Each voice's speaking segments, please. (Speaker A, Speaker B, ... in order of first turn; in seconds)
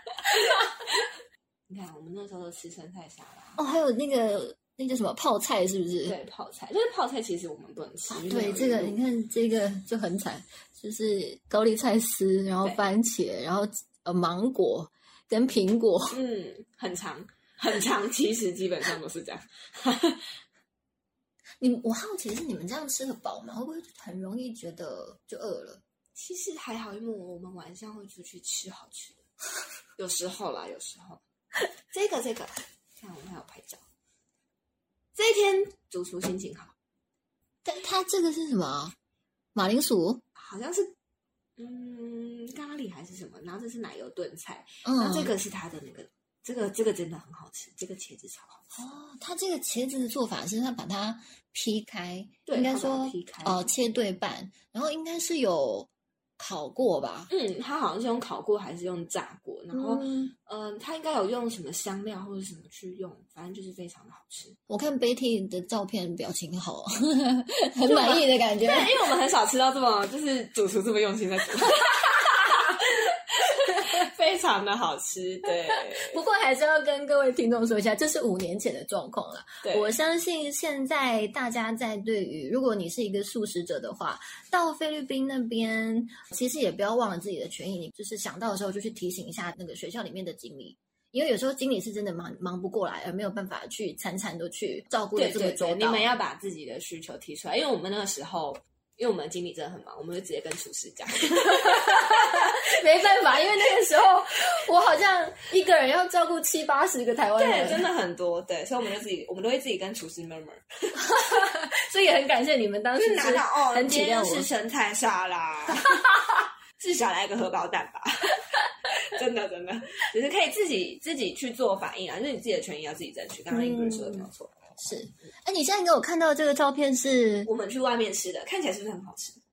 Speaker A: 1.7-3.6, 6.0-8.9, 16.1-20.4, 26.1-29.2, 30.0-31.2, 31.9-33.8, 35.1-36.7, 40.3-40.9, 41.6-48.6, 52.5-53.6, 57.3-64.6, 67.8-76.2, 79.6-80.0, 95.1-102.5, 107.3-111.0, 113.0-116.1, 116.8-124.6, 127.4-129.4
Speaker B: 3.6-6.2, 8.1-16.2, 21.6-25.8, 37.6-38.9, 39.5-40.2, 44.8-45.3, 48.7-57.3, 59.7-60.3, 64.7-68.9, 72.1-72.6, 73.7-74.0, 75.9-96.1, 101.4-107.9, 111.0-114.5, 123.5-127.5